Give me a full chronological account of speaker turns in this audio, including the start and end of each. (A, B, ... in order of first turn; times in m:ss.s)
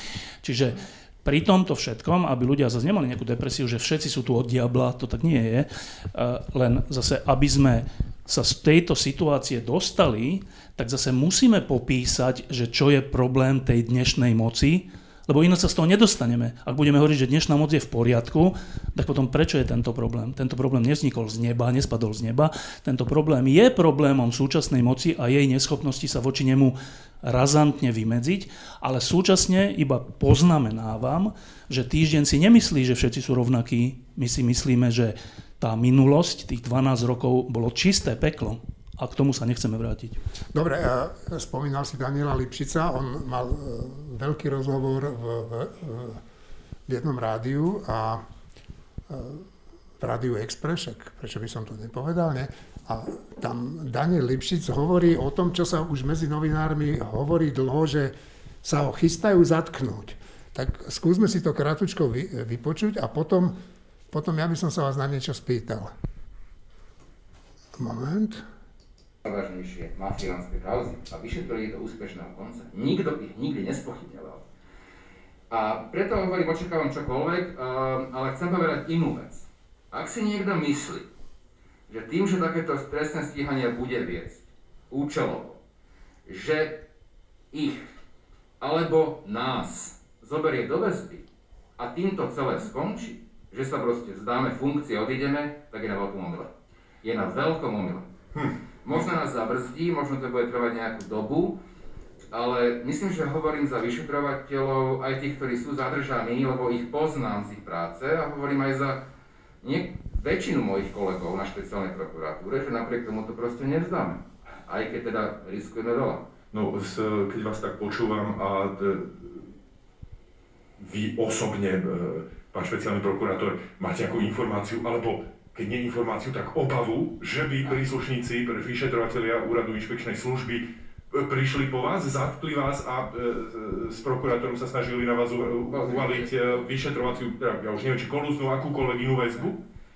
0:00.4-0:40.2 A
0:40.5-0:46.2 B
0:46.9-0:48.2 B
0:49.1-0:49.4 B
0:50.0-1:03.6 B
1:04.1-1:05.9 B
1:07.8-1:08.4 B
1:09.2-1:14.4 C
1:15.5-1:21.0 C
1:21.9-1:25.6 C
1:26.2-1:26.8 C
1:27.5-1:27.8 C
1:28.6-1:31.2 C
1:31.8-1:36.5 C
1:37.0-1:38.1 C
1:38.4-1:39.1 D
1:38.8-1:41.5 C
1:42.3-1:49.0 C
1:49.6-1:56.2 C
1:56.5-1:59.5 D
2:00.8-2:19.6 D
2:15.7-2:16.5 C